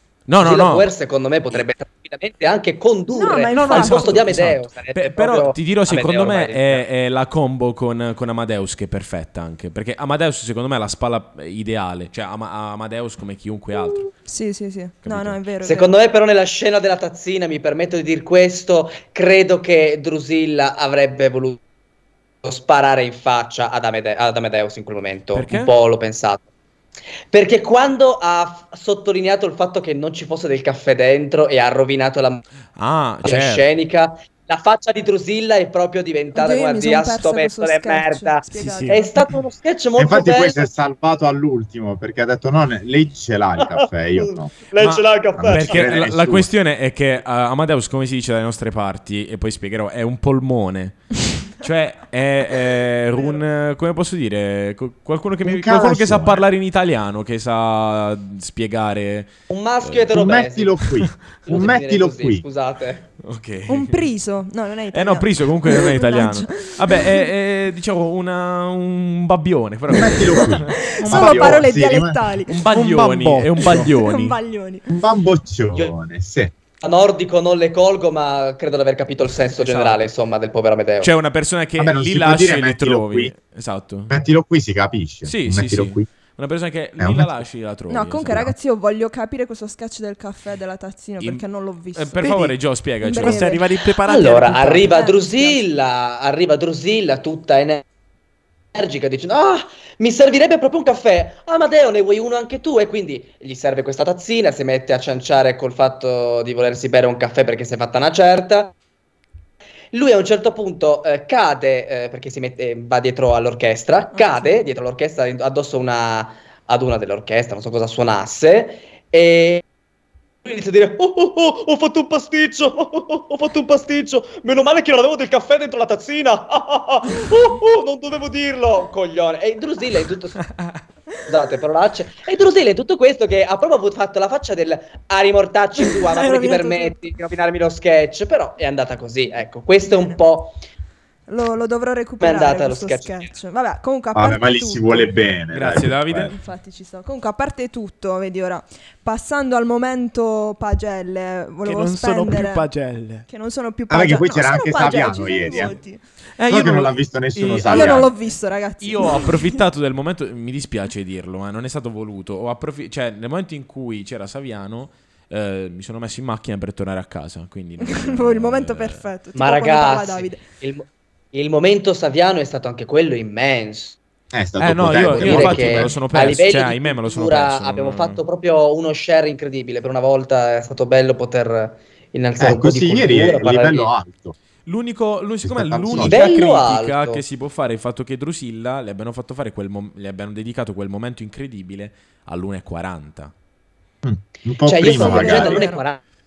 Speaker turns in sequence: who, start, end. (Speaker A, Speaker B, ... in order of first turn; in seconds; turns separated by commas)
Speaker A: 0.3-0.9, Speaker B: 0.4-6.8, Speaker C: 3.1-4.2, Speaker A: 3.5-14.1, Speaker C: 14.2-15.9, Speaker A: 15.0-15.4, Speaker B: 15.6-21.6, Speaker B: 22.4-26.5, Speaker A: 25.3-25.7, Speaker B: 27.3-32.4, Speaker A: 32.8-33.7, Speaker B: 33.2-40.6, Speaker C: 36.3-39.2, Speaker D: 38.5-39.3, Speaker E: 40.0-44.6, Speaker B: 43.6-46.0, Speaker A: 44.8-60.1, Speaker E: 45.4-46.5, Speaker E: 55.4-56.4, Speaker B: 59.5-60.8, Speaker E: 60.1-62.4, Speaker A: 60.9-61.2, Speaker B: 61.4-63.1, Speaker A: 63.2-64.1, Speaker C: 63.7-67.3, Speaker A: 64.9-70.7, Speaker E: 69.9-72.2, Speaker C: 70.3-72.5, Speaker D: 71.0-73.9, Speaker A: 72.5-74.4, Speaker C: 73.6-74.9, Speaker E: 74.9-76.5, Speaker B: 76.8-81.1, Speaker A: 79.6-80.0, Speaker A: 81.0-84.2, Speaker E: 81.8-83.3, Speaker E: 84.1-86.1, Speaker A: 85.2-88.5, Speaker E: 87.0-87.4, Speaker C: 87.9-92.2, Speaker A: 91.9-93.6, Speaker D: 92.2-92.6, Speaker C: 93.0-93.7, Speaker D: 93.2-95.0, Speaker B: 94.0-97.8, Speaker C: 94.9-95.6, Speaker B: 98.7-108.7, Speaker B: 109.9-119.6, Speaker C: 114.1-114.7, Speaker B: 120.4-130.4, Speaker B: 131.3-140.6, Speaker C: 135.8-137.1, Speaker C: 139.8-140.2, Speaker C: 141.3-145.1, Speaker B: 142.2-143.3, Speaker E: 144.2-146.3, Speaker A: 145.5-146.4, Speaker C: 146.3-152.7, Speaker D: 151.6-153.3, Speaker C: 153.2-156.0, Speaker E: 153.9-155.8, Speaker A: 156.4-158.1, Speaker E: 156.5-158.1, Speaker C: 157.7-159.6, Speaker A: 158.8-169.1, Speaker C: 167.8-170.4, Speaker B: 169.3-174.0, Speaker E: 174.3-176.0, Speaker A: 174.6-178.2, Speaker B: 175.0-183.9, Speaker E: 182.4-184.3, Speaker A: 184.7-193.3, Speaker E: 185.4-186.3, Speaker B: 186.0-187.2, Speaker E: 194.0-195.7, Speaker B: 194.6-196.0, Speaker C: 194.8-195.8